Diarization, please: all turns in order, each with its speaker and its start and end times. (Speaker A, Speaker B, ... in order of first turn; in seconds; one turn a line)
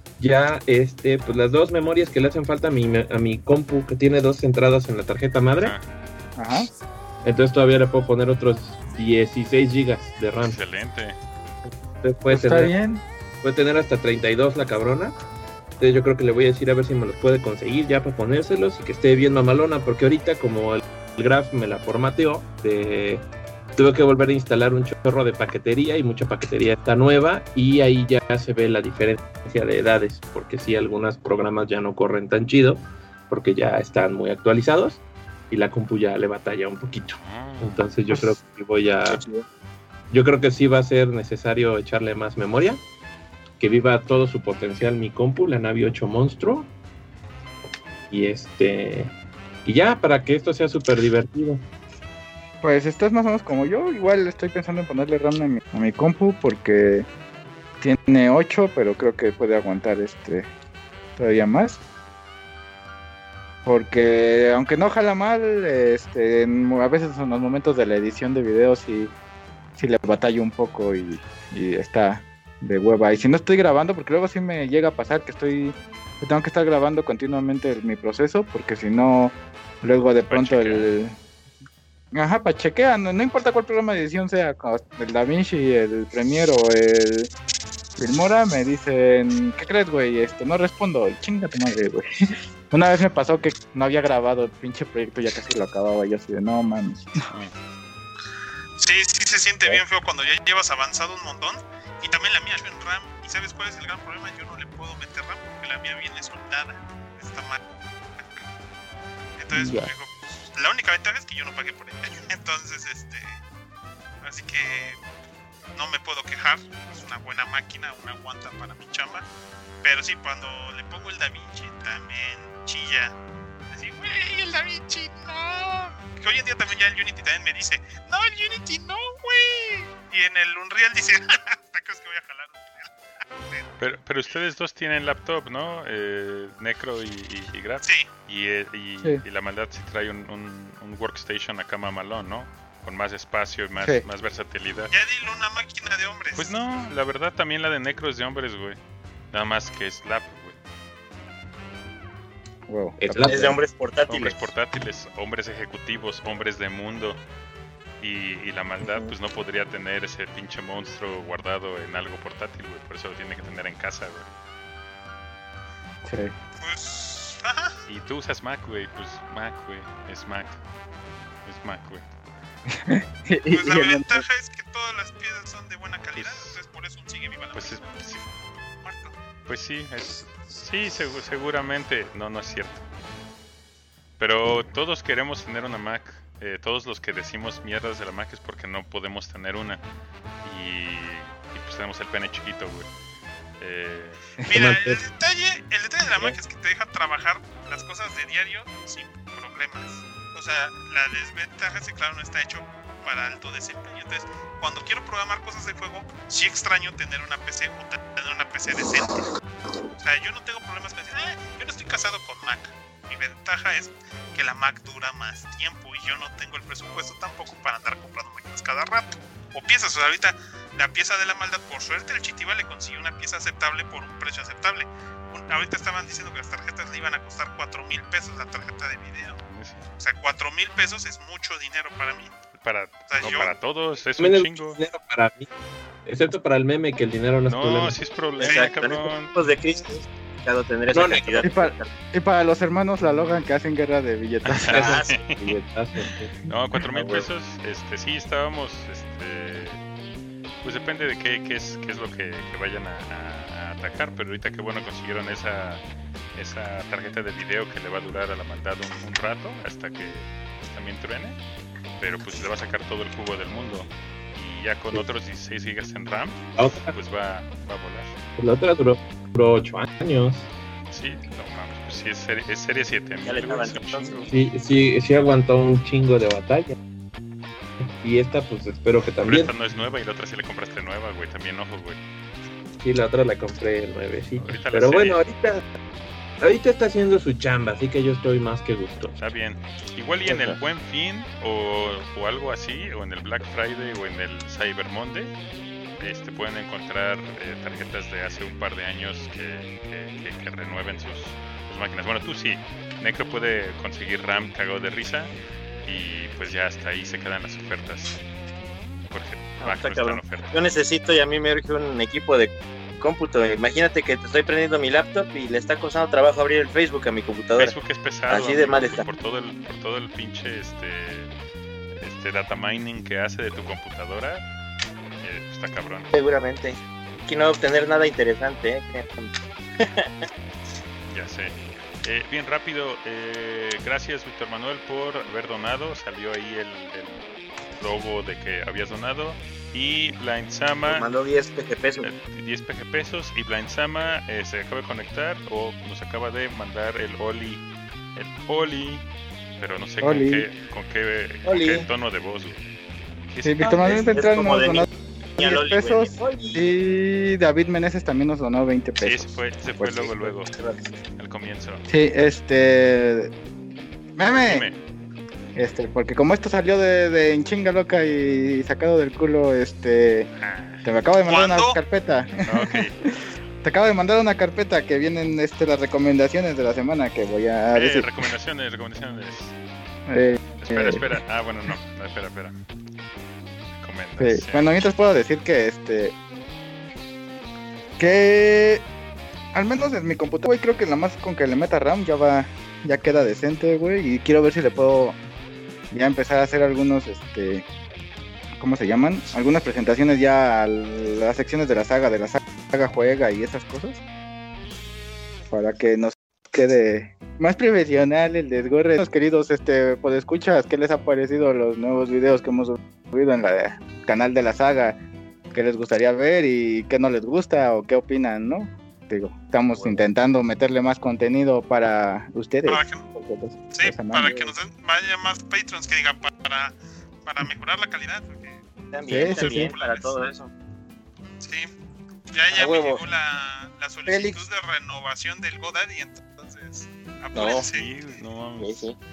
Speaker A: 0.2-5.7
Speaker B: 5.6-5.8
Speaker C: 6.3-6.7
Speaker A: 7.2-10.6
Speaker B: 10.4-11.2
Speaker A: 12.0-12.7
Speaker C: 12.3-13.0
Speaker A: 13.4-15.2
Speaker A: 15.8-39.2
Speaker B: 37.2-37.9
Speaker D: 39.1-39.4
Speaker A: 40.1-42.8
Speaker A: 43.6-46.7
Speaker A: 48.1-49.1
Speaker A: 49.6-51.6
Speaker C: 52.6-57.1
Speaker C: 57.8-60.5
Speaker C: 61.2-61.8
Speaker C: 63.6-69.1
Speaker C: 69.8-81.2
Speaker B: 80.3-80.9
Speaker C: 82.1-87.3
Speaker C: 88.0-92.1
Speaker C: 92.7-97.2
Speaker E: 98.8-107.6
Speaker E: 109.4-113.4
Speaker C: 109.5-109.9
Speaker E: 114.2-115.0
Speaker E: 115.7-119.2
Speaker E: 119.8-123.1
Speaker E: 123.7-133.7
Speaker B: 133.8-144.9
Speaker E: 137.8-138.1
Speaker C: 143.8-144.1
Speaker E: 144.9-146.5
Speaker B: 146.3-148.8
Speaker B: 149.3-150.6
Speaker C: 152.7-153.6
Speaker A: 153.0-153.5
Speaker D: 153.2-154.4
Speaker B: 154.1-157.2
Speaker B: 158.0-164.3
Speaker C: 166.0-166.3
Speaker E: 166.6-167.8
Speaker B: 167.9-170.6
Speaker B: 171.4-172.1
Speaker C: 172.7-174.2
Speaker E: 173.5-178.3
Speaker B: 176.2-176.6
Speaker B: 177.5-178.2
Speaker E: 178.8-179.1
Speaker B: 179.5-182.8
Speaker B: 184.2-189.8
Speaker B: 190.4-192.9
Speaker B: 193.6-194.2
Speaker C: 194.4-195.0
Speaker E: 194.4-209.3
Speaker E: 210.0-229.4
Speaker B: 229.5-229.8
Speaker E: 230.0-232.3
Speaker B: 232.5-234.8
Speaker E: 233.1-233.6
Speaker A: 234.2-235.5
Speaker A: 236.0-238.0
Speaker B: 237.4-239.3
Speaker D: 238.4-241.9
Speaker E: 238.4-239.0
Speaker A: 240.9-241.5
Speaker C: 241.4-245.0
Speaker B: 244.4-249.8
Speaker D: 244.7-245.3
Speaker A: 245.3-246.4
Speaker B: 250.6-255.8
Speaker B: 256.3-261.4
Speaker B: 262.0-268.1
Speaker A: 266.6-266.9
Speaker A: 268.4-270.5
Speaker B: 270.9-274.3
Speaker D: 273.2-274.3
Speaker A: 274.3-276.7
Speaker A: 278.0-279.5
Speaker B: 279.2-282.0
Speaker A: 282.8-285.6
Speaker B: 284.4-285.2
Speaker A: 286.4-289.1
Speaker B: 289.2-295.3
Speaker D: 290.3-290.6
Speaker B: 296.0-305.3
Speaker B: 305.8-308.2
Speaker B: 309.1-310.6
Speaker D: 309.6-317.8
Speaker B: 317.6-321.3
Speaker D: 318.3-319.1
Speaker B: 321.9-324.4
Speaker B: 325.2-326.1
Speaker D: 326.1-330.3
Speaker B: 331.1-341.1
Speaker D: 340.8-342.1
Speaker B: 342.0-349.0
Speaker B: 349.6-352.6
Speaker C: 350.0-350.5
Speaker D: 351.4-351.9
Speaker B: 353.3-354.0
Speaker C: 353.4-354.9
Speaker D: 353.6-354.9
Speaker D: 355.4-356.6
Speaker C: 355.4-360.1
Speaker B: 359.0-360.5
Speaker D: 360.0-360.9
Speaker B: 361.2-361.8
Speaker C: 361.9-363.3
Speaker C: 364.1-364.7
Speaker B: 364.4-364.8
Speaker C: 365.5-370.3
Speaker B: 370.4-370.9
Speaker C: 370.8-373.1
Speaker E: 371.2-371.8
Speaker B: 372.4-373.0
Speaker C: 373.6-378.2
Speaker B: 377.7-379.5
Speaker C: 380.1-381.2
Speaker B: 380.6-382.6
Speaker B: 383.8-384.7
Speaker C: 384.2-386.1
Speaker C: 388.0-388.8
Speaker C: 389.5-395.2
Speaker C: 395.9-397.6
Speaker C: 398.6-404.0
Speaker C: 405.5-415.0
Speaker C: 415.5-424.5
Speaker D: 419.7-420.0
Speaker E: 422.6-423.0
Speaker E: 423.7-430.2
Speaker D: 428.9-430.5
Speaker C: 429.1-429.7
Speaker E: 431.4-431.7
Speaker E: 432.3-438.0
Speaker D: 432.5-433.0
Speaker D: 434.1-434.4
Speaker D: 437.3-437.6
Speaker B: 437.6-438.8
Speaker D: 438.6-438.9